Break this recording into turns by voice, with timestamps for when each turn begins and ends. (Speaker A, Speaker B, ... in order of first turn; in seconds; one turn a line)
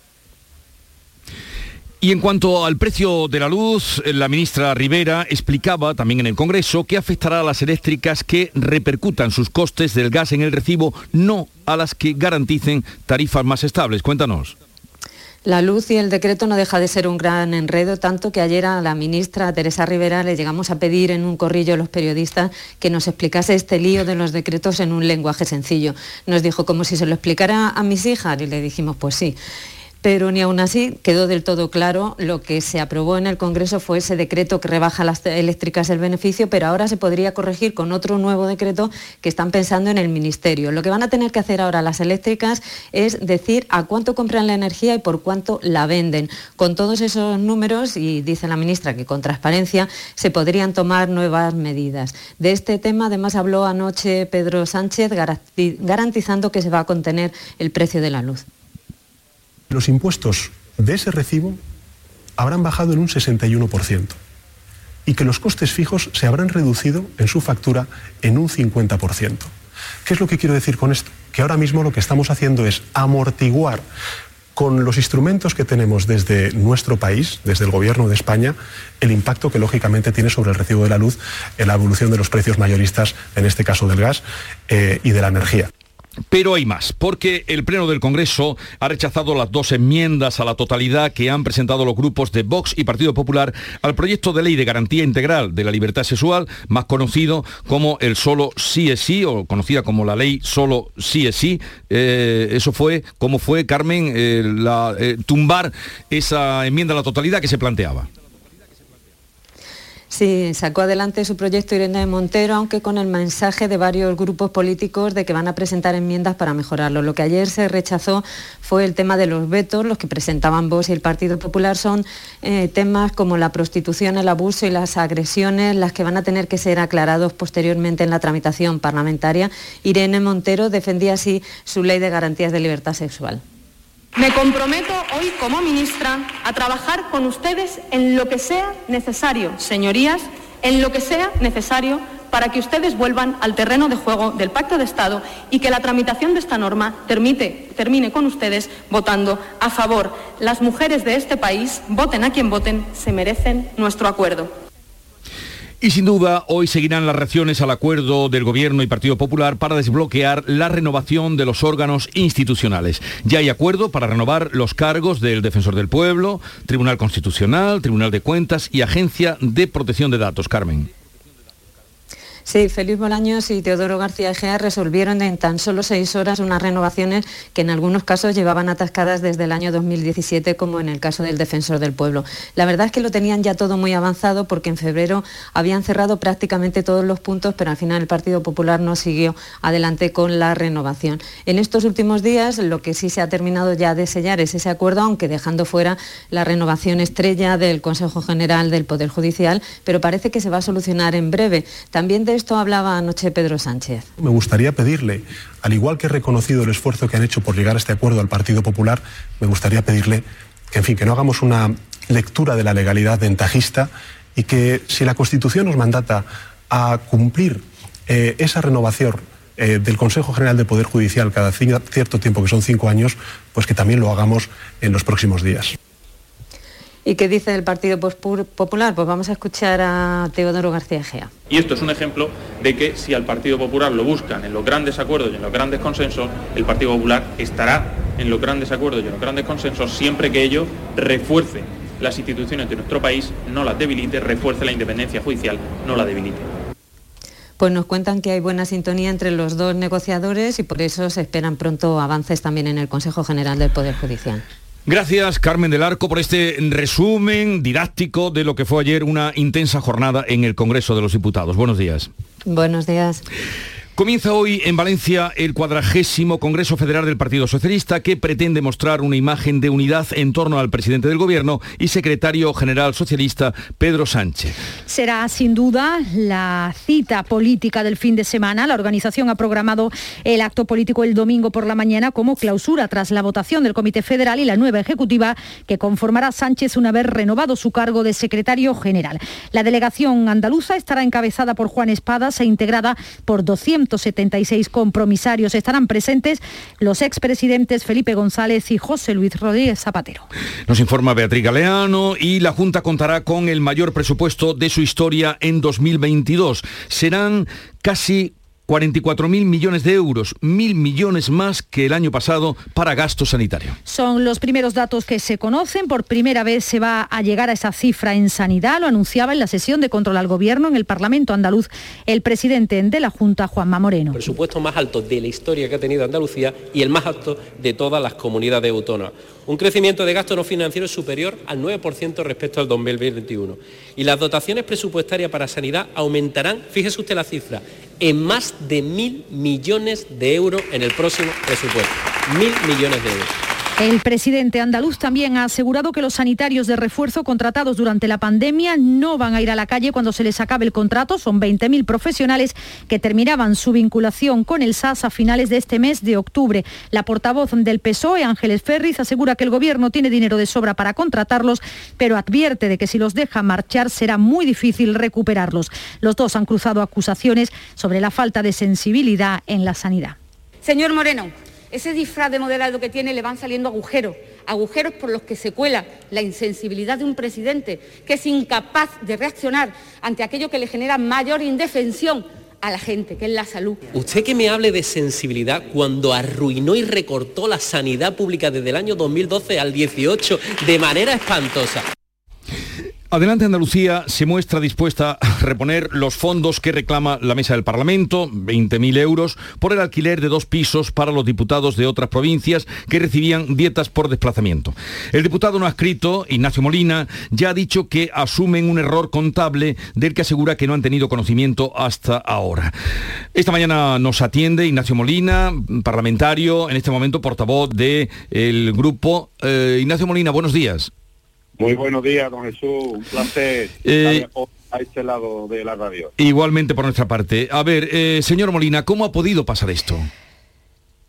Speaker A: 2.0-14.6
Speaker B: 15.4-29.4
Speaker B: 30.0-58.4
Speaker C: 59.7-61.6
Speaker C: 62.4-64.2
Speaker C: 65.0-69.5
Speaker C: 70.0-73.8
Speaker C: 74.5-85.7
Speaker A: 86.3-108.1
Speaker B: 110.1-133.4
Speaker D: 134.2-154.5
Speaker A: 155.8-170.9
Speaker B: 172.4-204.1
Speaker C: 204.2-225.7
Speaker B: 227.0-231.3
Speaker E: 231.5-246.4
Speaker B: 247.6-254.4
Speaker A: 254.8-262.1
Speaker B: 262.4-263.2
Speaker A: 263.9-274.6
Speaker F: 274.9-300.2
Speaker A: 300.7-313.8
Speaker F: 313.9-324.2
Speaker G: 324.1-343.3
Speaker F: 343.8-370.2
Speaker H: 370.6-383.8
Speaker G: 383.9-391.8
Speaker A: 393.1-412.7
Speaker A: 413.3-420.9
Speaker I: 421.6-426.1
Speaker A: 423.8-424.2
Speaker A: 426.2-430.1